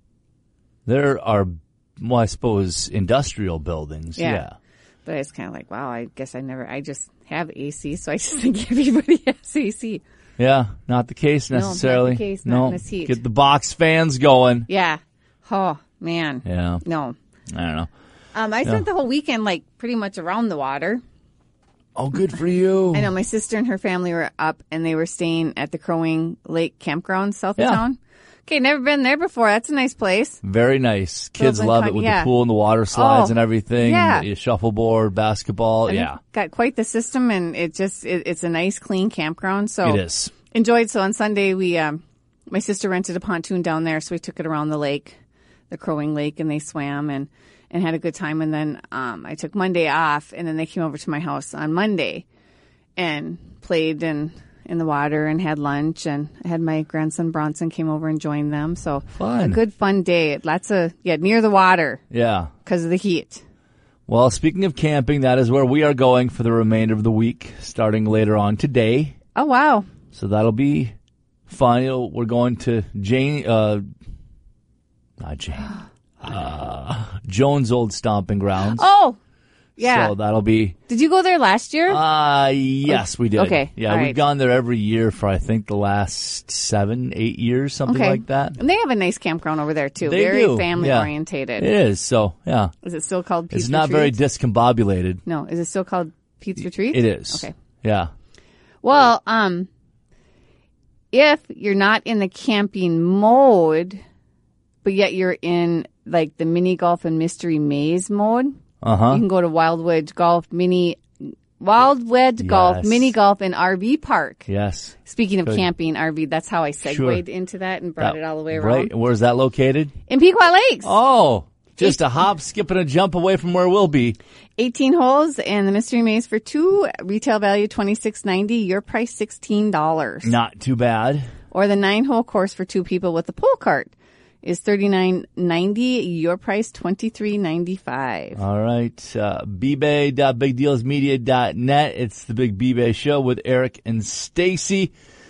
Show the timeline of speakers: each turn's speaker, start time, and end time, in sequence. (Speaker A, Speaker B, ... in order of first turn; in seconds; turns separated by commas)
Speaker A: 0.8-4.5, Speaker B: 4.2-4.4, Speaker B: 5.0-10.0, Speaker A: 10.4-14.7, Speaker B: 11.5-13.2, Speaker B: 14.7-17.1, Speaker A: 16.4-16.8, Speaker A: 17.5-17.9, Speaker B: 18.3-21.0, Speaker A: 21.9-23.1, Speaker B: 22.9-30.4, Speaker A: 27.6-27.8, Speaker A: 30.4-36.2, Speaker B: 31.4-32.3, Speaker B: 32.9-34.3, Speaker B: 35.9-45.1, Speaker A: 39.8-40.3, Speaker B: 45.7-52.2, Speaker B: 53.0-62.0, Speaker A: 59.1-59.6, Speaker A: 62.1-62.5, Speaker B: 62.6-63.4, Speaker A: 64.1-69.2, Speaker B: 69.3-69.9, Speaker A: 70.1-70.9, Speaker A: 71.5-73.8, Speaker A: 75.2-78.8, Speaker B: 78.7-79.2, Speaker B: 79.8-80.1, Speaker A: 79.8-80.7, Speaker B: 80.9-82.0, Speaker A: 81.9-88.6, Speaker B: 82.9-84.2, Speaker B: 87.9-91.7, Speaker A: 90.0-92.7, Speaker B: 92.8-94.2, Speaker A: 93.5-95.2, Speaker B: 95.2-97.5, Speaker A: 96.9-98.1, Speaker B: 98.8-99.7, Speaker B: 101.1-104.0, Speaker B: 104.8-108.6, Speaker A: 108.8-109.2, Speaker B: 109.1-114.5, Speaker A: 112.4-113.1, Speaker A: 114.5-115.7, Speaker B: 115.0-118.9, Speaker A: 116.8-117.2, Speaker A: 118.0-119.9, Speaker B: 120.1-120.9, Speaker A: 120.8-124.2, Speaker B: 124.6-130.3, Speaker A: 130.2-131.3, Speaker B: 131.5-138.4, Speaker A: 138.4-144.9